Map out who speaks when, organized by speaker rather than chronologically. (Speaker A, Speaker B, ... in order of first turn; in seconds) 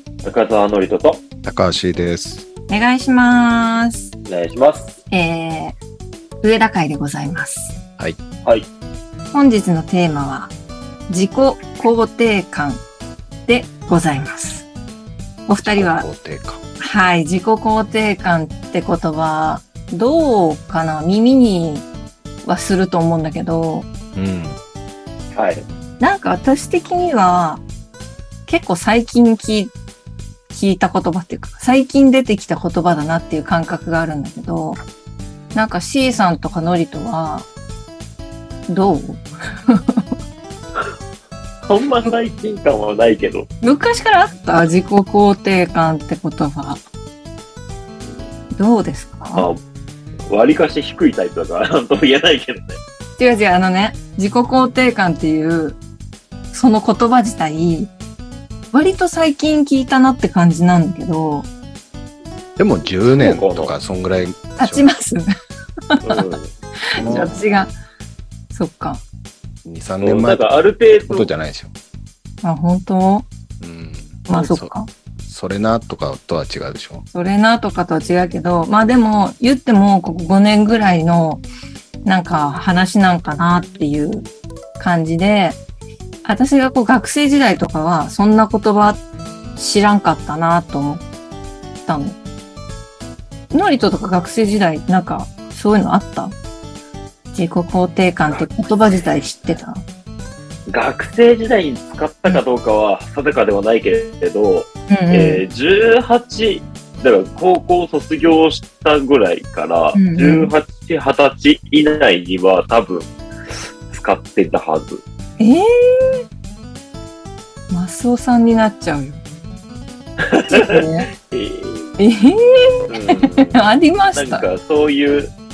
Speaker A: 0.2-1.2, 4.3-5.0, 25.4-25.6, 41.7-43.5, 50.3-52.8, 63.2-63.7, 66.0-66.5, 70.0-71.3, 100.7-115.0, 120.2-122.0, 122.9-125.3
Speaker B: 1.4-2.5, 15.6-16.6, 24.1-24.6, 62.6-64.9, 67.0-67.3, 69.7-70.4, 71.1-71.7, 73.6-74.7, 75.3-77.1
Speaker C: 2.7-4.1, 5.1-5.8, 6.4-7.8, 9.3-10.5, 11.1-12.8, 13.5-14.7, 15.5-16.1, 16.8-21.9, 22.4-23.9, 26.0-27.6, 28.5-29.7, 30.5-34.8, 35.5-37.5, 38.7-40.0, 43.6-46.8, 48.5-49.5, 53.2-55.8, 56.5-57.9, 58.7-61.5, 64.6-65.3, 65.9-66.4, 66.9-67.7, 68.5-69.0, 72.4-73.3, 74.3-74.9, 77.1-81.4, 82.0-85.6, 86.2-89.0, 89.6-91.0, 91.8-92.2, 93.5-96.3, 97.3-99.8, 104.9-105.4, 109.9-110.5, 115.4-116.2, 117.7-119.2, 120.5-121.1, 122.0-124.5